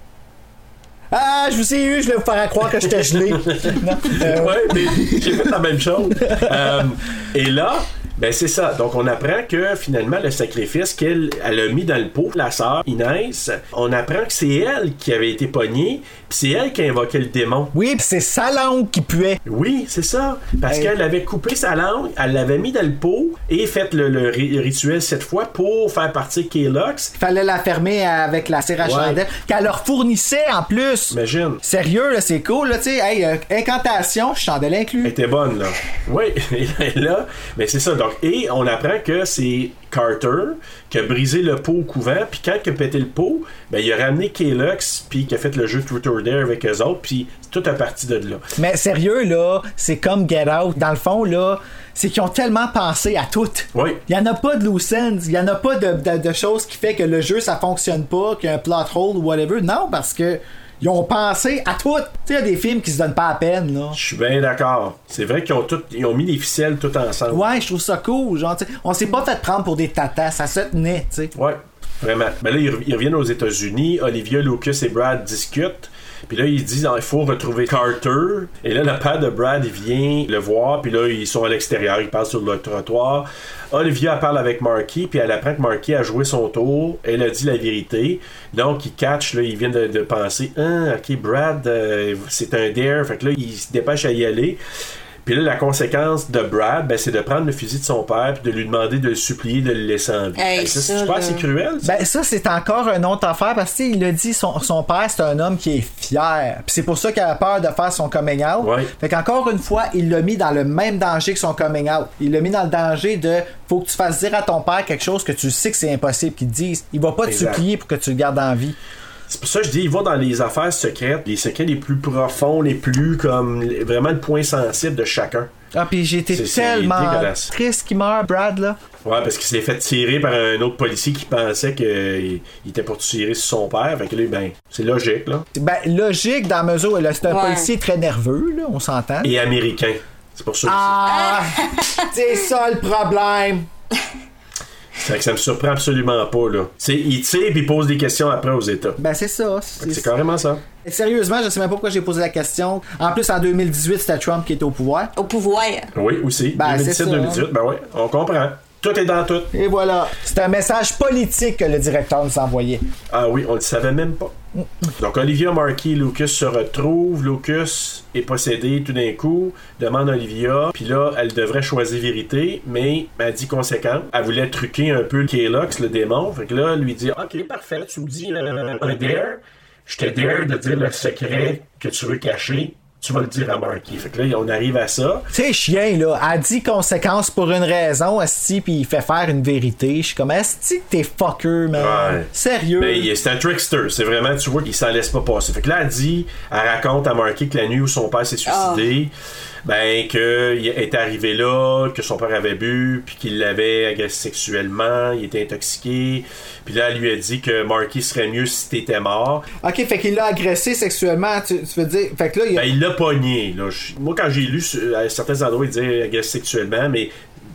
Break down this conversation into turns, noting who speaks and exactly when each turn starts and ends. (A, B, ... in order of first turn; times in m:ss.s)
0:01.1-0:05.5 A
0:03.0-0:17.7 B
0:06.2-0:06.7 A
0:17.7-0:19.4 A
0:19.4-0:27.1 B
0:27.2-0:35.2 A
0:28.8-0:29.2 B
0:31.1-0:31.6 B
0:35.0-0:48.4 B
0:48.6-1:04.0 A
0:53.7-0:54.0 B
1:03.9-1:07.4 B
1:07.3-1:11.3 A
1:11.3-1:34.6 B
1:35.2-1:42.0 B
1:40.4-1:41.4 C
1:41.8-1:58.8 A
1:48.6-1:48.9 B
1:57.3-1:57.6 B
1:59.3-2:05.5 B
2:05.7-2:08.8 A
2:06.3-2:07.5 B
2:09.0-2:15.4 B
2:15.5-2:19.3 A
2:17.2-2:17.7 C
2:19.2-2:21.0 B
2:20.6-2:23.7 A
2:21.1-2:22.0 C
2:25.0-2:29.0 B
2:29.0-2:30.1 A
2:29.8-2:30.6 B
2:30.8-2:35.1 A
2:35.2-2:35.9 C
2:35.9-2:39.5 B
2:36.6-2:37.4 A
2:39.5-2:42.8 A
2:43.1-2:44.3 B
2:45.0-3:05.3 B
3:05.3-3:13.1 A
3:11.7-3:19.1 B
3:18.4-3:18.9 C
3:19.6-3:29.4 B
3:29.6-3:32.7 A
3:32.5-3:37.1 B